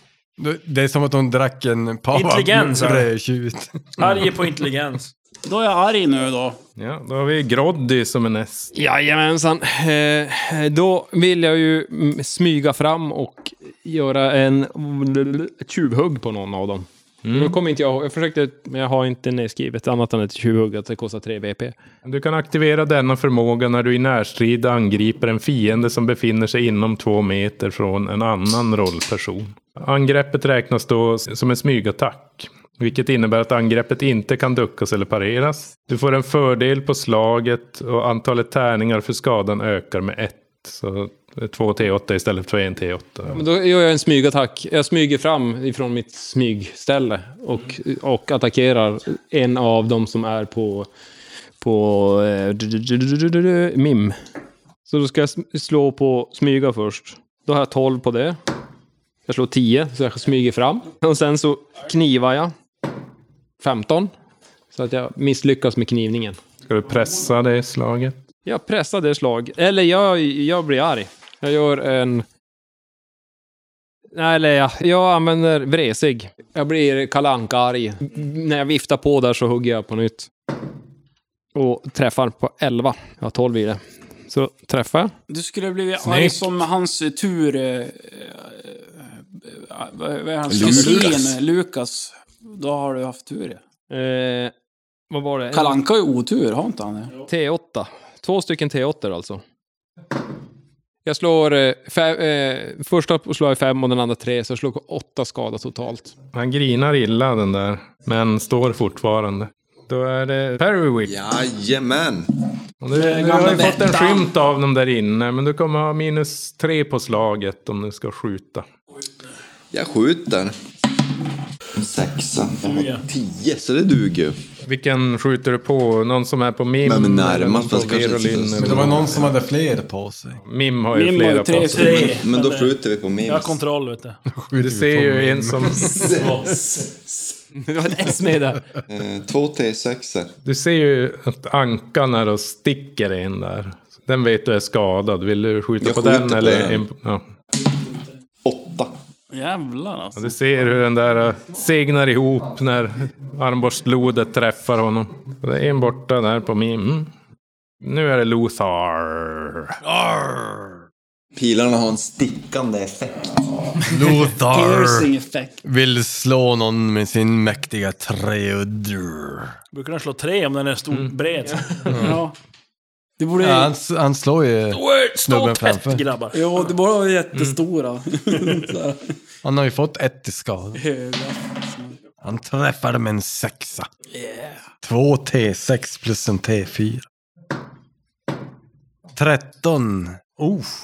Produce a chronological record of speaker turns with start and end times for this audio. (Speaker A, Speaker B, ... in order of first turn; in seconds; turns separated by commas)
Speaker A: 0.4-4.3, Speaker B: 2.1-3.1, Speaker B: 4.0-5.1, Speaker C: 5.4-6.6, Speaker D: 6.8-8.7, Speaker E: 8.7-21.8, Speaker D: 17.2-17.6, Speaker D: 22.0-43.4, Speaker E: 43.3-50.9, Speaker E: 51.6-54.1, Speaker E: 54.9-58.4, Speaker E: 59.3-62.5, Speaker E: 63.6-64.1, Speaker E: 64.7-66.4, Speaker D: 66.7-68.1, Speaker E: 68.5-72.2, Speaker E: 74.1-80.3, Speaker E: 81.5-85.1, Speaker C: 85.3-93.6, Speaker F: 90.5-91.3, Speaker E: 93.9-94.5, Speaker E: 95.1-95.8, Speaker C: 95.5-97.1, Speaker E: 97.3-99.4, Speaker E: 101.0-106.1, Speaker D: 106.3-111.1, Speaker F: 111.0-112.3, Speaker D: 112.8-118.6, Speaker C: 112.9-114.3, Speaker F: 119.7-120.5, Speaker F: 121.7-124.4, Speaker B: 122.6-123.0, Speaker D: 124.6-129.3, Speaker F: 126.8-129.2, Speaker A: 128.6-130.4, Speaker D: 130.5-132.1, Speaker C: 130.9-132.1, Speaker B: 131.7-132.7, Speaker F: 132.0-133.6, Speaker B: 133.2-134.2, Speaker A: 134.3-136.3, Speaker D: 134.6-136.1, Speaker F: 135.9-137.3, Speaker E: 137.6-138.6, Speaker F: 138.9-140.3, Speaker D: 140.4-147.2, Speaker F: 145.8-146.8, Speaker F: 148.4-148.9, Speaker C: 149.3-150.3, Speaker D: 150.2-157.1, Speaker D: 157.8-159.8, Speaker A: 159.8-160.7, Speaker F: 161.3-164.0, Speaker A: 163.9-165.1, Speaker C: 164.5-165.6, Speaker A: 165.6-169.5, Speaker B: 169.7-171.9, Speaker A: 171.9-172.2, Speaker C: 171.9-172.3, Speaker C: 173.2-173.7, Speaker A: 173.4-176.0, Speaker B: 174.7-176.4, Speaker C: 176.3-179.1, Speaker A: 179.4-180.8, Speaker C: 180.8-182.0, Speaker A: 182.2-183.9, Speaker C: 184.1-184.6, Speaker A: 184.8-187.1, Speaker A: 189.1-190.4